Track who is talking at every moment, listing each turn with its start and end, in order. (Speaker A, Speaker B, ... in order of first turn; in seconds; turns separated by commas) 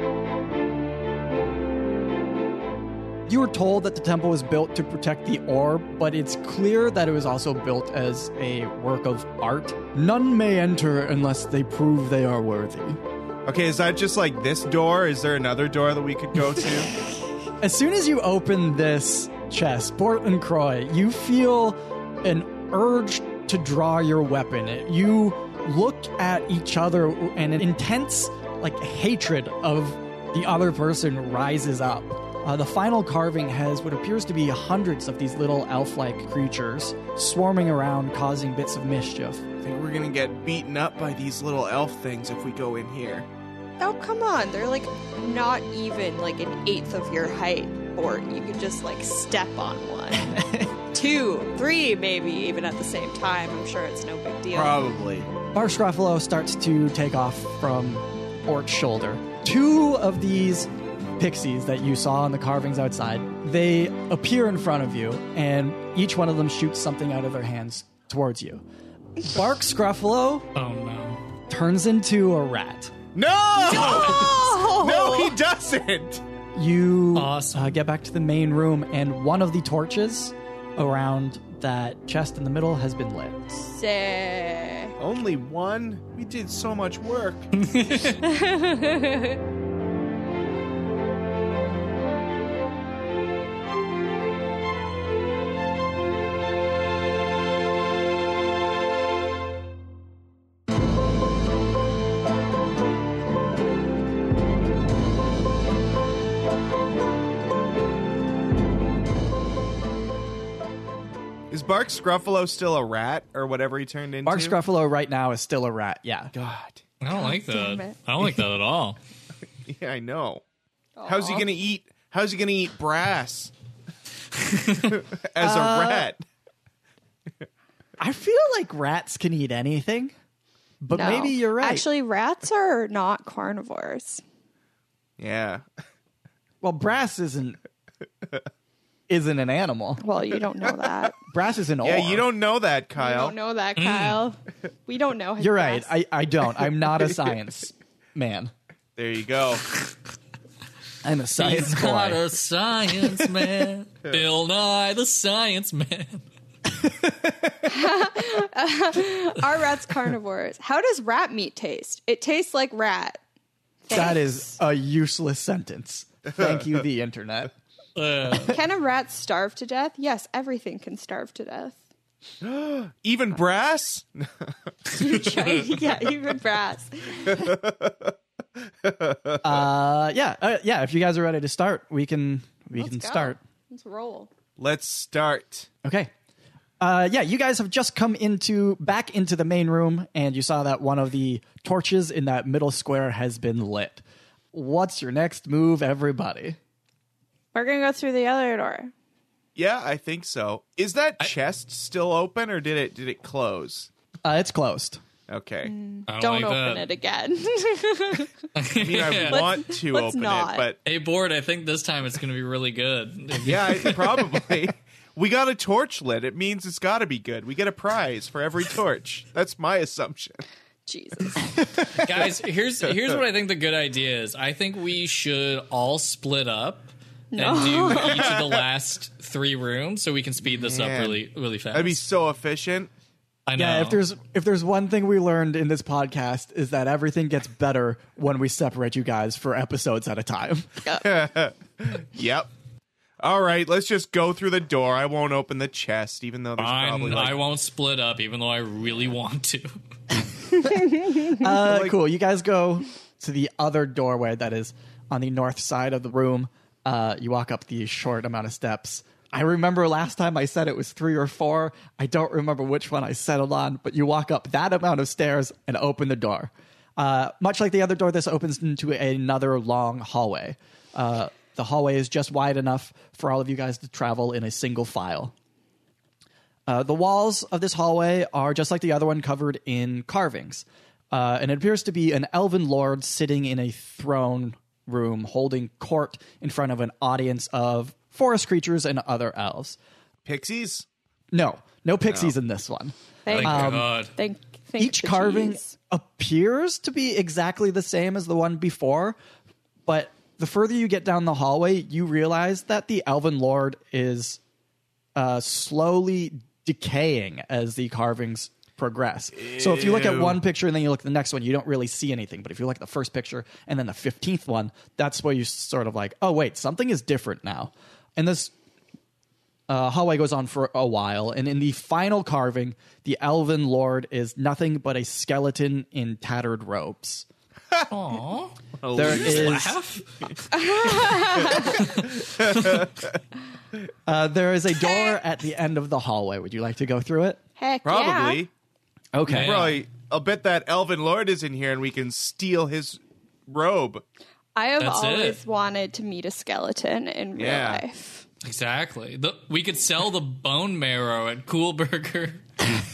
Speaker A: 3.3-13.0, Speaker B: 13.4-16.9, Speaker A: 17.6-39.4, Speaker B: 39.6-43.3, Speaker C: 43.8-54.8, Speaker A: 50.2-50.7, Speaker B: 54.5-55.3, Speaker A: 55.5-68.6, Speaker A: 69.2-70.5, Speaker D: 70.5-71.2, Speaker A: 71.5-72.9, Speaker B: 73.1-76.2, Speaker C: 73.6-75.3, Speaker A: 76.5-83.7, Speaker D: 77.1-77.8, Speaker C: 83.7-84.9, Speaker B: 85.0-87.5, Speaker D: 87.5-88.2, Speaker C: 88.2-89.4, Speaker B: 111.5-114.5, Speaker A: 114.2-116.3, Speaker B: 116.3-116.8, Speaker D: 117.0-119.0, Speaker C: 117.1-117.9, Speaker B: 119.7-120.4, Speaker C: 121.0-121.5, Speaker B: 121.0-123.5, Speaker D: 124.3-125.0, Speaker B: 124.9-126.2, Speaker A: 125.4-126.1, Speaker A: 128.0-130.1, Speaker A: 130.8-131.8, Speaker C: 130.9-134.2, Speaker B: 135.2-135.6, Speaker A: 136.6-137.6, Speaker A: 139.1-140.0, Speaker C: 140.0-141.2, Speaker A: 141.3-142.3, Speaker B: 141.8-143.3, Speaker C: 143.0-145.9, Speaker D: 143.8-144.2, Speaker A: 145.4-148.5, Speaker B: 148.9-149.7, Speaker A: 151.0-152.2, Speaker D: 151.4-156.2, Speaker A: 156.7-157.8, Speaker C: 157.7-163.2, Speaker C: 163.9-164.6, Speaker A: 163.9-167.5, Speaker D: 167.9-168.6, Speaker C: 168.3-171.8, Speaker B: 172.4-175.4, Speaker C: 174.9-177.6, Speaker B: 177.3-178.1, Speaker B: 178.6-179.7, Speaker A: 179.4-183.4, Speaker C: 182.8-184.3, Speaker B: 184.6-185.7, Speaker A: 185.8-186.1, Speaker A: 186.8-194.0, Speaker A: 194.5-196.6, Speaker C: 197.5-198.9, Speaker B: 199.6-203.9, Speaker A: 204.2-205.0, Speaker B: 205.3-205.7, Speaker C: 205.6-208.3, Speaker D: 206.1-206.9, Speaker D: 208.5-209.5, Speaker B: 208.8-210.8, Speaker C: 209.3-210.6, Speaker D: 210.8-214.3, Speaker B: 213.4-220.4, Speaker C: 220.9-221.6, Speaker D: 221.8-232.0, Speaker C: 227.3-228.4, Speaker B: 227.9-228.6, Speaker B: 230.4-231.2, Speaker B: 231.7-232.9, Speaker D: 233.5-234.0, Speaker A: 233.6-240.8, Speaker B: 240.9-242.5, Speaker B: 243.2-247.4, Speaker D: 246.6-249.8, Speaker A: 250.6-275.3, Speaker B: 251.6-252.0, Speaker A: 276.7-289.8, Speaker B: 290.2-290.9, Speaker A: 291.3-293.9, Speaker B: 292.1-292.3, Speaker C: 293.2-295.7, Speaker D: 293.3-294.1, Speaker A: 294.8-299.2, Speaker A: 299.9-304.4, Speaker A: 305.1-318.5, Speaker B: 309.4-310.4, Speaker A: 319.7-327.2, Speaker D: 327.9-330.3, Speaker B: 328.8-329.7, Speaker A: 328.9-329.8, Speaker C: 330.5-331.9, Speaker D: 331.0-332.9, Speaker B: 331.4-333.0, Speaker A: 334.1-337.4, Speaker C: 334.8-335.2, Speaker C: 337.6-338.4, Speaker B: 337.8-338.5, Speaker A: 339.1-339.7, Speaker D: 339.3-339.8, Speaker B: 339.3-344.0, Speaker C: 344.5-348.2, Speaker D: 344.8-345.4, Speaker B: 347.4-347.8, Speaker D: 348.4-352.8